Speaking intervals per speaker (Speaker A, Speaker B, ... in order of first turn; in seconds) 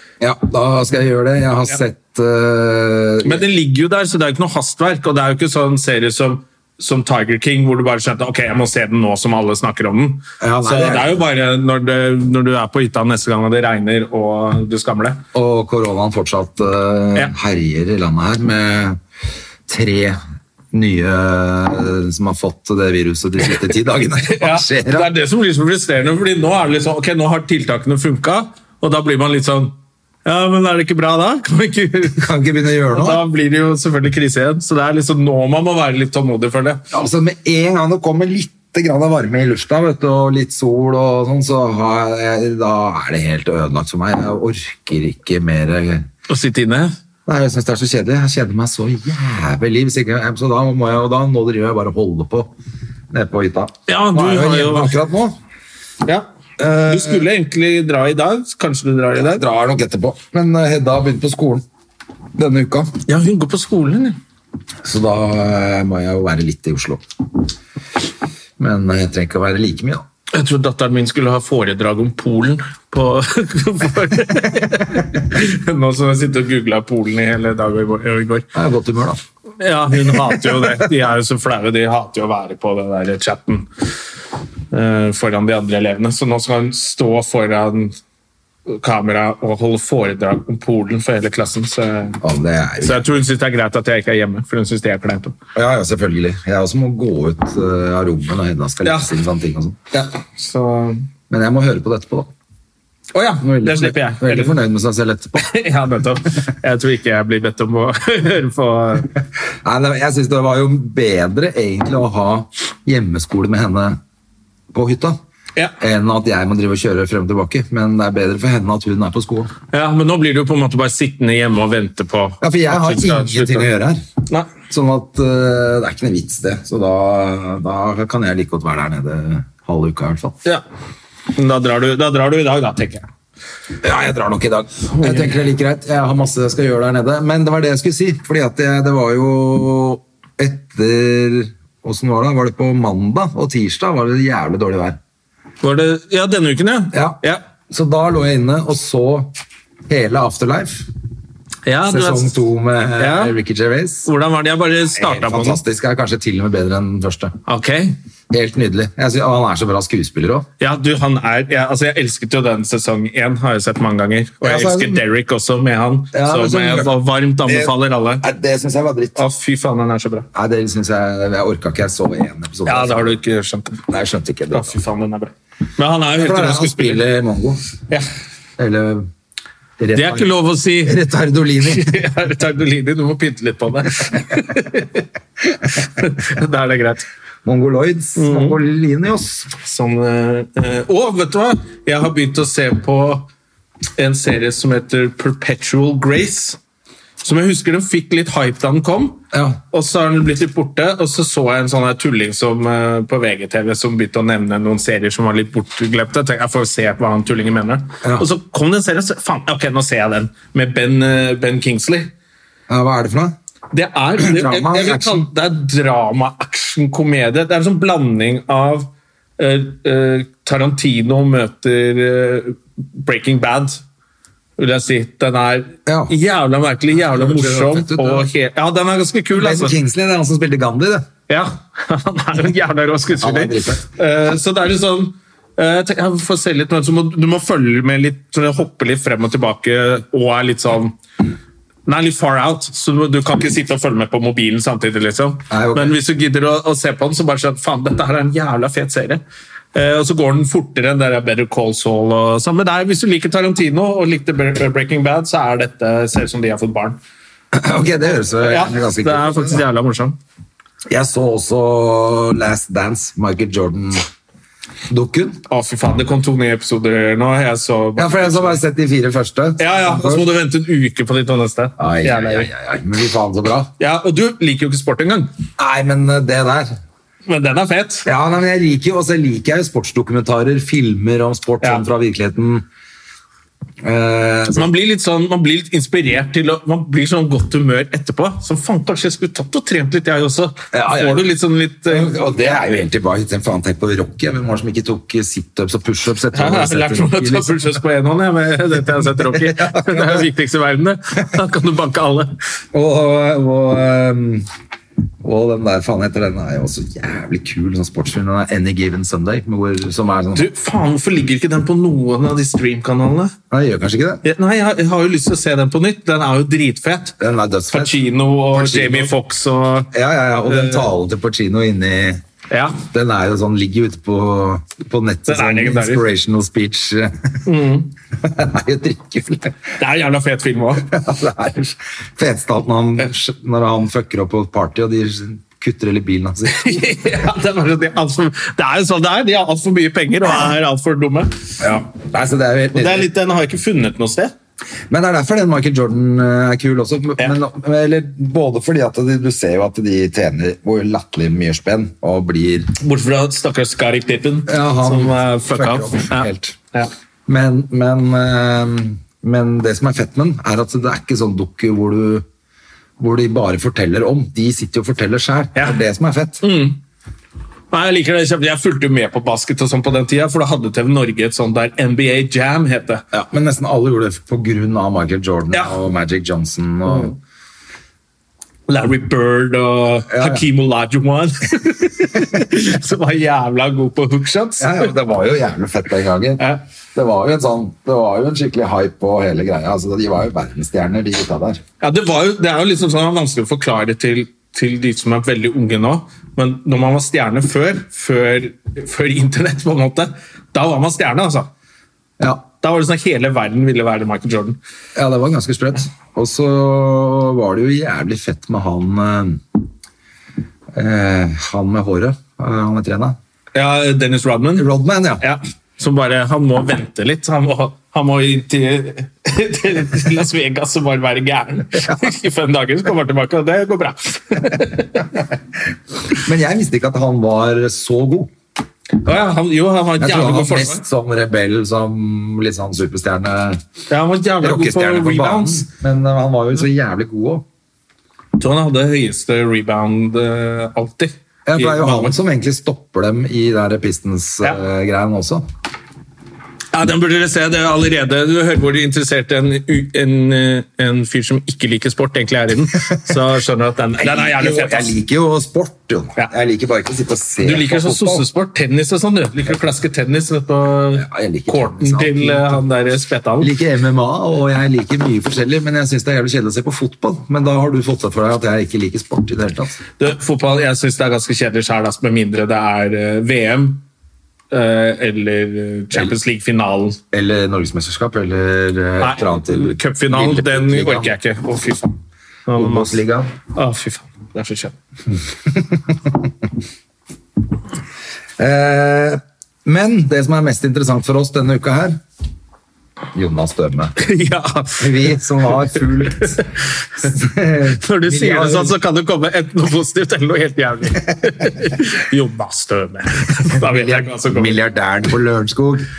Speaker A: 0.2-3.4, 10.4-11.2, 15.3-19.0, 19.7-20.2, 20.7-25.1, 32.2-33.2, 36.9-46.1, 47.2-52.5, 53.1-55.4, 56.6-57.3, 59.2-61.6, 62.4-62.9, 64.8-67.0, 68.6-70.0, 78.5-79.2, 80.1-80.8, 92.2-93.0, 95.5-99.8, 101.3-102.3, 103.4-105.4, 109.6-114.0, 114.7-115.2, 115.8-119.5, 122.4-124.0, 124.7-130.4, 133.8-145.0, 146.9-147.2, 147.7-149.3, 149.9-150.8, 151.8-154.1, 154.9-157.3, 158.3-160.5, 164.4-165.0, 166.1-166.9, 167.4-169.2, 170.3-173.2, 173.9-174.8, 176.1-177.6, 178.6-179.1, 179.8-182.0, 187.4-189.5, 199.3-199.6, 212.7-213.3, 214.2-215.3, 225.8-226.1, 226.9-228.3, 229.3-231.1, 233.2-233.8, 245.5-245.9, 257.5-259.6, 260.9-264.1, 264.9-265.4, 268.0-270.3, 271.8-273.7, 275.6-276.8, 278.0-282.6, 283.8-284.7, 290.7-291.3, 291.9-297.7, 299.1-300.3, 302.7-304.5, 305.2-310.4, 313.5-314.2, 317.2-318.0, 318.5-319.1, 319.9-322.2, 322.8-327.4, 328.2-329.6, 330.9-336.9, 341.6-343.1, 344.9-352.7, 354.5-356.6, 357.3-362.2, 363.0-366.4, 373.1-377.1, 380.1-380.4, 384.6-391.6, 404.9-409.4, 410.7-413.2, 414.6-415.2, 426.1-428.3, 430.0-433.6, 434.4-437.4, 441.4-445.5, 454.0-458.2, 460.9-462.6, 463.4-469.8, 477.1-481.1, 482.5-483.3, 485.5-486.2, 488.4-492.0, 493.1-493.9, 494.8-496.4, 497.0-498.7, 503.5-505.9
Speaker B: 3.2-15.2, 24.2-32.2, 32.9-36.8, 46.3-46.9, 53.9-55.0, 56.0-59.4, 63.0-64.2, 70.3-78.5, 79.6-83.7, 84.7-88.0, 88.7-92.2, 92.8-95.3, 98.8-99.1, 99.9-101.1, 103.1-104.6, 105.4-109.1, 119.7-123.7, 131.3-133.1, 134.9-135.3, 145.6-147.4, 151.7-152.3, 153.0-153.3, 154.0-155.6, 157.5-158.0, 160.6-168.2, 169.2-170.3, 172.7-173.8, 174.5-177.0, 179.9-181.0, 181.6-185.1, 185.8-187.1, 188.2-188.6, 189.6-193.3, 194.0-196.6, 197.2-212.1, 213.7-223.8, 224.6-229.8, 231.3-240.9, 241.8-249.2, 249.7-257.0, 258.4-260.2, 265.5-268.6, 269.6-272.5, 273.8-275.3, 277.2-278.1, 281.6-281.9, 284.5-292.2, 296.3-302.3, 310.3-313.3, 314.2-317.1, 317.7-319.9, 320.5-320.9, 322.5-322.8, 325.3-326.0, 327.4-327.9, 329.8-330.9, 336.5-341.3, 342.7-344.3, 352.8-356.9, 366.4-366.8, 367.7-373.0, 376.9-377.1, 378.7-384.9, 391.8-401.5, 402.6-404.6, 413.5-414.7, 415.2-425.1, 429.0-430.8, 433.9-435.7, 438.4-442.1, 446.7-454.9, 457.4-463.5, 470.0-473.8, 474.5-477.0, 479.0-484.7, 494.0-495.2, 497.8-504.6